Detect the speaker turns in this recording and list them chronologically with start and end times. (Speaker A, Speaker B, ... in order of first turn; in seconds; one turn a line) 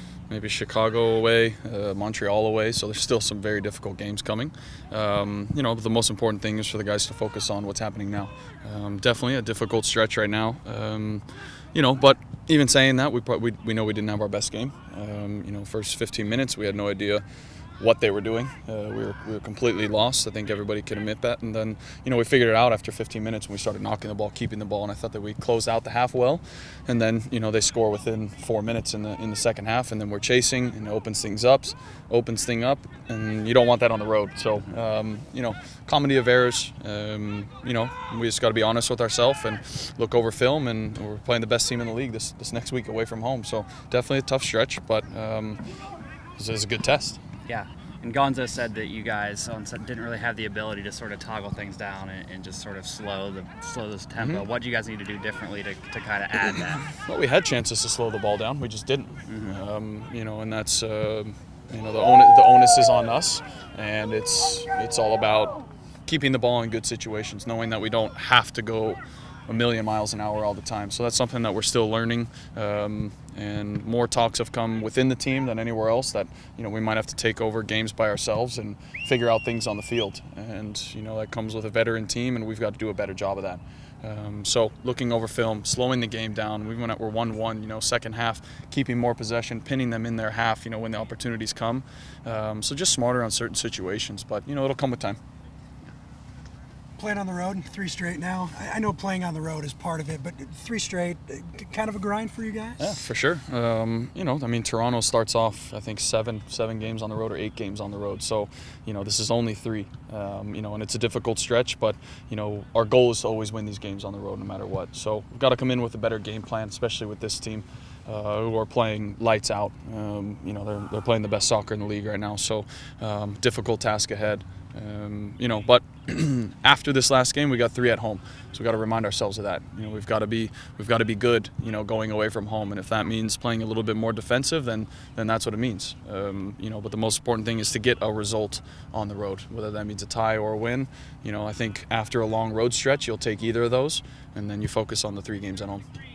Speaker A: 0.3-17.2
Speaker A: 17.8-45.6
Speaker A: 46.4-47.2
Speaker B: 47.5-56.9
Speaker A: 54.1-54.4
Speaker A: 56.9-95.2
Speaker B: 59.3-59.6
Speaker C: 97.0-102.9
Speaker A: 102.8-145.8